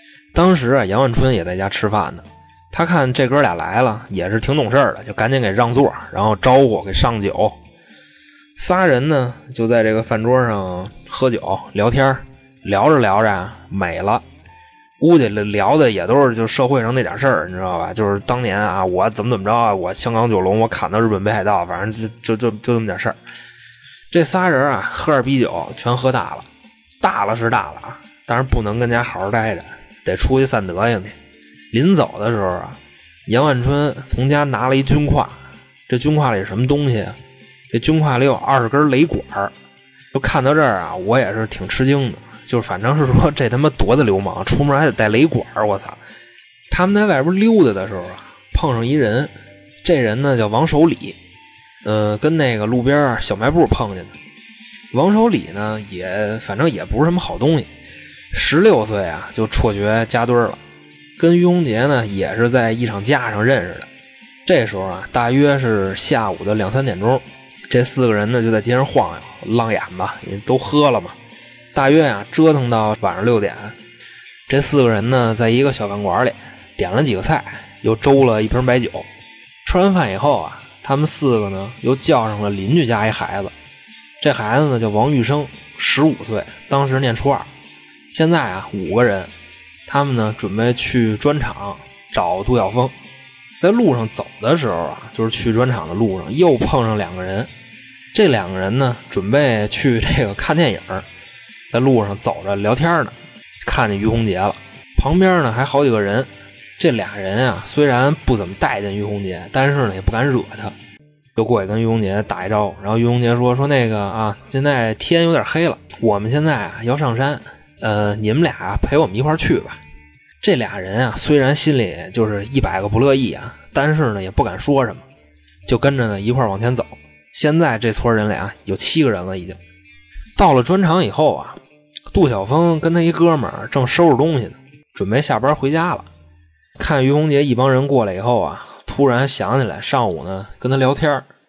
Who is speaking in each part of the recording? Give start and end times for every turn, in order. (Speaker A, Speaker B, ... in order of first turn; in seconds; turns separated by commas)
Speaker A: 0.3-7.6, Speaker A: 8.6-14.2, Speaker A: 15.0-23.1, Speaker A: 24.1-26.4, Speaker A: 27.0-31.1, Speaker A: 31.7-35.4, Speaker A: 35.9-37.1, Speaker A: 37.7-39.5, Speaker A: 40.1-46.0, Speaker A: 46.7-49.3, Speaker A: 49.8-51.2, Speaker A: 51.8-54.1, Speaker A: 54.9-57.7, Speaker A: 58.3-60.6, Speaker A: 61.2-63.9, Speaker A: 64.5-71.2, Speaker A: 71.7-73.8, Speaker A: 74.5-79.1, Speaker A: 79.6-83.5, Speaker A: 84.2-87.5, Speaker A: 88.1-89.3, Speaker A: 89.8-92.9, Speaker A: 93.6-97.5, Speaker A: 98.1-101.0, Speaker A: 101.7-103.1, Speaker A: 103.6-110.7, Speaker A: 111.3-119.8, Speaker A: 120.4-125.0, Speaker A: 125.7-129.6, Speaker A: 130.3-131.6, Speaker A: 132.1-136.1, Speaker A: 136.8-141.3